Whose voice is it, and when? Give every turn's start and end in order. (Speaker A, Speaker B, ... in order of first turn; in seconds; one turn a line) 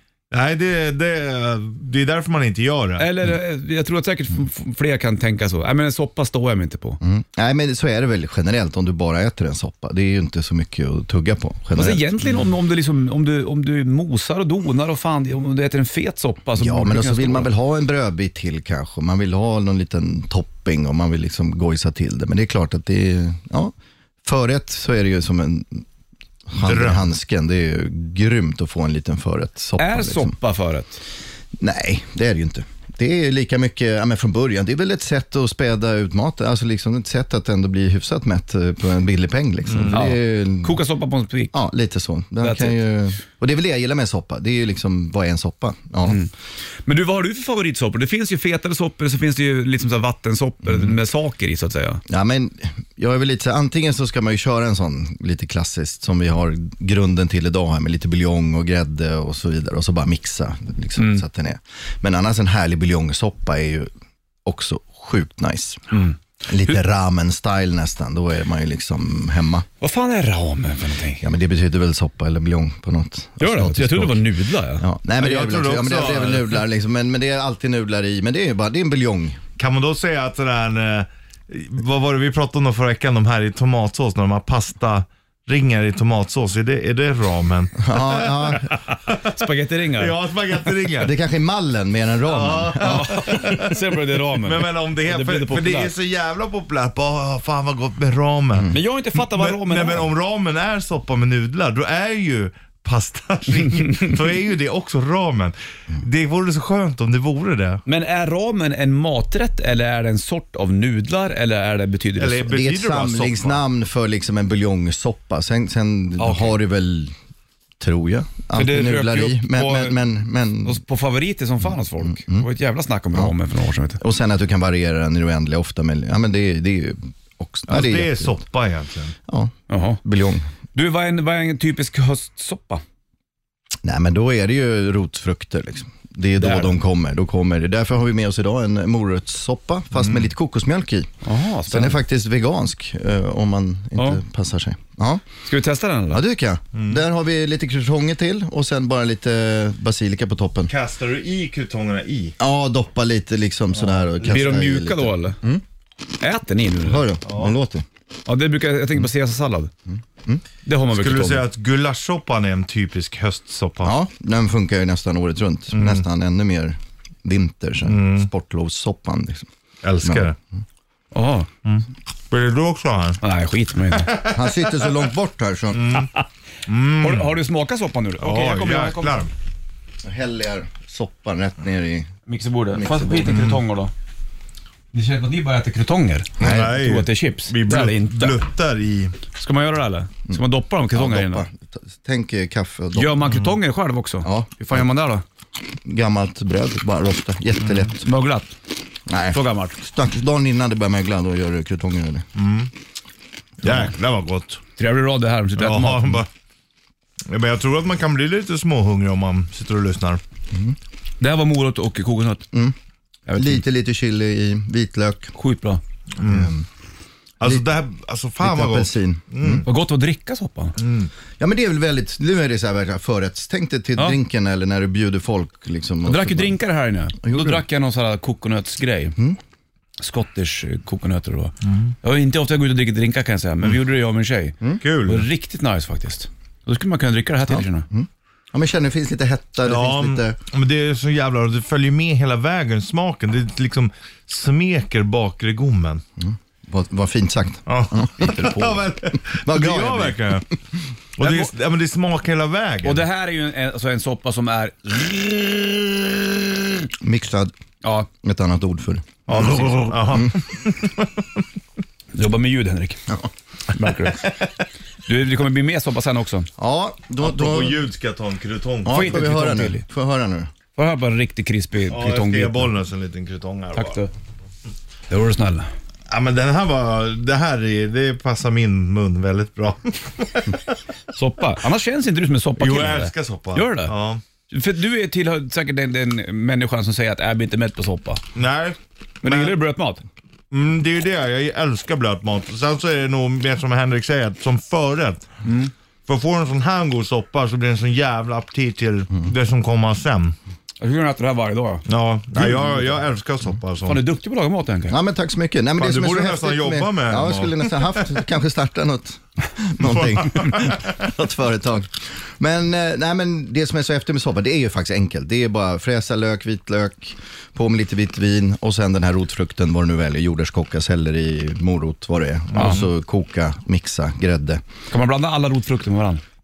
Speaker A: 0.3-3.1
Speaker B: 3.0-7.0
Speaker C: 7.0-12.1
Speaker B: 11.7-17.5
Speaker C: 16.6-23.7
Speaker C: 24.2-25.9
Speaker C: 26.5-30.4
Speaker A: 26.6-27.1
Speaker B: 29.8-31.0
Speaker C: 31.6-40.8
Speaker A: 39.6-40.0
Speaker B: 39.9-41.5
Speaker C: 41.5-46.2
Speaker B: 42.4-42.8
Speaker B: 46.9-52.0
Speaker C: 52.1-63.9
Speaker B: 61.0-61.2
Speaker C: 64.4-69.7
Speaker B: 65.9-66.2
Speaker B: 69.8-71.3
Speaker C: 71.2-74.3
Speaker B: 73.4-74.9
Speaker C: 74.8-79.4
Speaker A: 75.2-76.6
Speaker A: 79.6-89.2
Speaker C: 87.8-88.7
Speaker B: 89.2-90.2
Speaker A: 90.0-91.1
Speaker C: 91.0-93.2
Speaker A: 92.2-93.8
Speaker B: 92.7-95.9
Speaker A: 94.3-107.8
Speaker B: 98.7-100.1
Speaker B: 107.9-112.5
Speaker A: 112.2-113.6
Speaker C: 112.5-117.1
Speaker B: 116.2-116.6
Speaker C: 117.8-120.8
Speaker B: 118.5-120.0
Speaker B: 120.6-124.0
Speaker C: 122.0-122.5
Speaker C: 124.0-128.4
Speaker A: 127.7-129.1
Speaker C: 129.3-130.5
Speaker B: 129.7-130.0
Speaker B: 130.7-132.8
Speaker C: 133.8-141.1
Speaker B: 136.4-136.8
Speaker A: 140.0-140.3
Speaker B: 141.2-142.0
Speaker C: 141.7-145.2
Speaker B: 143.9-144.2
Speaker B: 145.4-146.2
Speaker C: 146.1-150.7
Speaker A: 146.7-147.0
Speaker A: 150.7-152.4
Speaker C: 152.4-155.6
Speaker B: 154.2-155.4
Speaker B: 156.2-157.1
Speaker C: 156.8-157.8
Speaker A: 157.2-157.6
Speaker B: 158.3-159.7
Speaker C: 159.9-160.4
Speaker B: 160.6-161.4
Speaker A: 160.9-163.9
Speaker C: 163.8-169.5
Speaker A: 165.7-166.0
Speaker A: 167.8-168.3
Speaker A: 169.8-170.4
Speaker C: 170.0-170.3
Speaker B: 171.1-171.5
Speaker A: 171.6-173.2
Speaker B: 173.2-174.2
Speaker A: 173.9-174.4
Speaker C: 174.2-175.9
Speaker A: 175.7-176.1
Speaker A: 176.7-177.3
Speaker B: 177.0-179.2
Speaker A: 178.2-179.3
Speaker C: 180.0-182.1
Speaker B: 182.3-183.9
Speaker C: 182.7-183.6
Speaker B: 184.9-188.4
Speaker A: 186.4-189.1
Speaker C: 186.4-186.7
Speaker B: 189.4-191.4
Speaker C: 190.3-193.2
Speaker B: 192.9-195.2
Speaker C: 194.2-194.9
Speaker C: 195.8-198.0
Speaker B: 198.0-198.5
Speaker C: 199.1-202.3
Speaker B: 199.3-199.8
Speaker A: 202.3-202.7
Speaker A: 203.6-204.6
Speaker B: 204.8-206.2
Speaker A: 205.6-206.3
Speaker A: 207.3-210.2
Speaker B: 211.2-212.4
Speaker B: 213.3-213.6
Speaker C: 213.4-215.3
Speaker B: 215.3-215.8
Speaker A: 216.2-216.5
Speaker C: 216.2-216.7
Speaker A: 217.4-219.7
Speaker C: 218.4-219.7
Speaker B: 219.6-220.8
Speaker A: 220.8-221.1
Speaker C: 221.4-226.6
Speaker B: 226.0-229.2
Speaker C: 227.2-227.6
Speaker B: 230.0-237.9
Speaker A: 234.8-235.3
Speaker C: 237.5-240.4
Speaker A: 239.6-246.0
Speaker C: 246.2-250.4
Speaker A: 247.7-250.4
Speaker A: 251.2-253.0
Speaker B: 251.2-251.5
Speaker B: 252.8-256.1
Speaker C: 257.0-257.5
Speaker B: 257.8-258.1
Speaker C: 258.1-260.3
Speaker A: 259.3-261.2
Speaker B: 259.3-260.0
Speaker B: 262.1-263.0
Speaker B: 263.7-264.3
Speaker B: 265.1-266.5
Speaker C: 266.6-267.8
Speaker A: 267.2-269.2
Speaker C: 268.9-270.5
Speaker B: 268.9-269.9
Speaker B: 270.7-272.7
Speaker A: 271.9-274.0
Speaker B: 273.7-274.1
Speaker B: 275.1-275.7
Speaker A: 276.1-280.8
Speaker B: 281.1-283.9
Speaker A: 282.6-284.2
Speaker B: 284.5-288.2
Speaker A: 288.4-289.6
Speaker B: 289.2-290.0
Speaker A: 290.5-295.2
Speaker B: 295.4-295.7
Speaker A: 296.1-300.4
Speaker B: 300.8-301.8
Speaker A: 301.9-304.0
Speaker B: 303.9-305.0
Speaker C: 304.9-324.6
Speaker A: 305.8-308.1
Speaker A: 309.8-310.8
Speaker A: 322.5-322.9
Speaker B: 322.5-322.8
Speaker B: 324.9-326.2